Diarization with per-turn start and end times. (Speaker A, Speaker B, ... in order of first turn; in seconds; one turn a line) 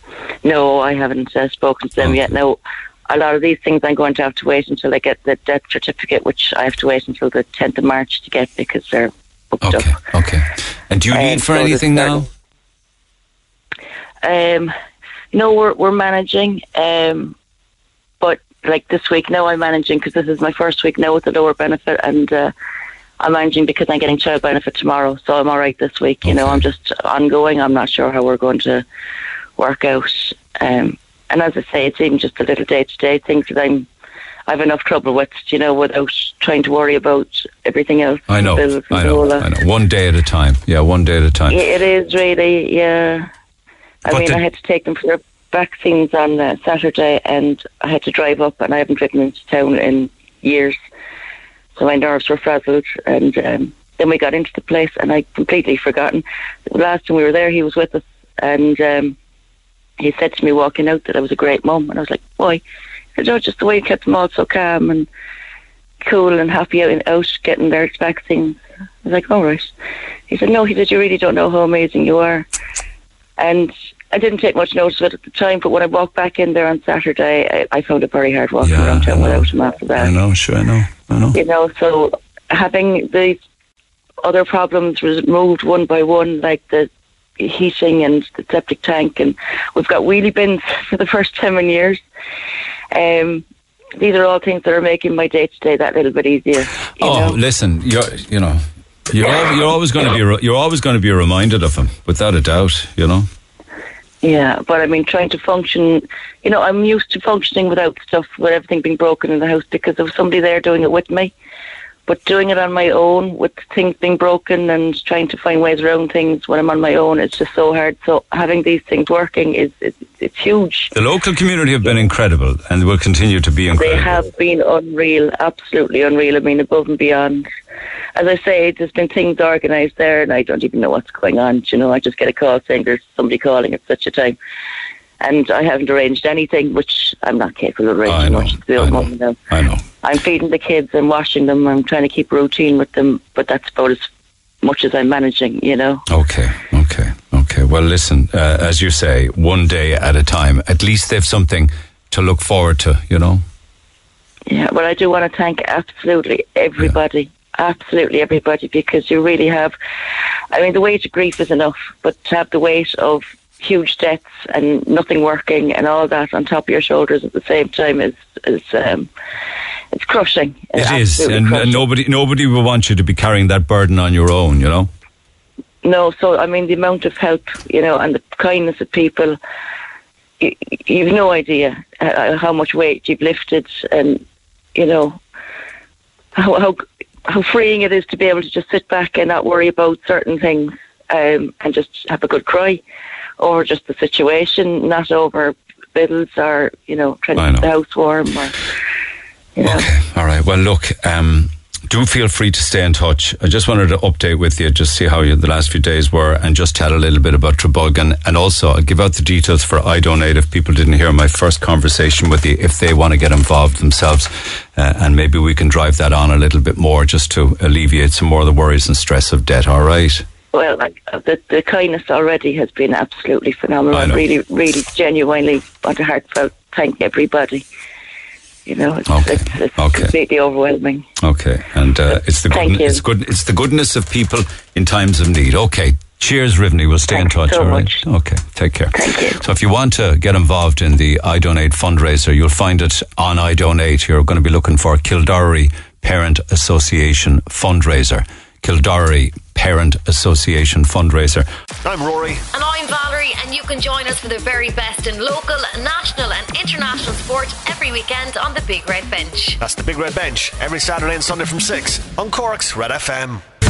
Speaker A: 0.4-10.0
Speaker B: 2.0-2.3
Speaker B: 9.6-12.3
Speaker A: 11.1-12.2
Speaker A: 14.2-14.7
Speaker A: 15.3-17.4
Speaker A: 18.2-22.5
Speaker A: 23.2-28.9
Speaker B: 26.2-26.6
Speaker A: 29.6-33.9
Speaker A: 34.5-39.5
Speaker B: 38.3-41.6
Speaker A: 41.5-43.3
Speaker A: 44.0-50.8
Speaker B: 44.1-44.4
Speaker A: 51.8-59.2
Speaker A: 60.0-62.6
Speaker A: 63.2-65.1
Speaker A: 66.0-69.7
Speaker A: 70.3-72.5
Speaker A: 73.4-80.2
Speaker B: 78.6-81.4
Speaker A: 81.3-83.4
Speaker A: 84.2-92.0
Speaker A: 92.9-93.4
Speaker A: 94.0-97.4
Speaker B: 97.0-103.3
Speaker A: 104.2-111.3
Speaker A: 112.1-120.9
Speaker B: 120.9-124.2
Speaker A: 123.7-127.5
Speaker A: 128.2-134.4
Speaker A: 135.2-139.4
Speaker B: 138.1-139.8
Speaker A: 140.0-144.1
Speaker A: 144.6-146.1
Speaker B: 146.1-153.4
Speaker A: 154.5-159.7
Speaker A: 160.5-169.1
Speaker A: 169.9-171.9
Speaker B: 170.8-174.9
Speaker A: 175.8-179.4
Speaker A: 180.4-184.2
Speaker A: 184.8-185.2
Speaker A: 186.4-192.8
Speaker A: 193.4-198.6
Speaker B: 197.4-197.7
Speaker A: 199.6-199.9
Speaker B: 199.6-220.2
Speaker A: 220.5-227.7
Speaker B: 223.9-224.2
Speaker A: 228.7-231.1
Speaker B: 229.1-230.1
Speaker B: 231.2-251.5
Speaker A: 232.5-233.0
Speaker A: 237.1-238.0
Speaker A: 238.9-239.4
Speaker C: 251.8-252.5
Speaker D: 252.5-259.6
Speaker C: 259.6-263.4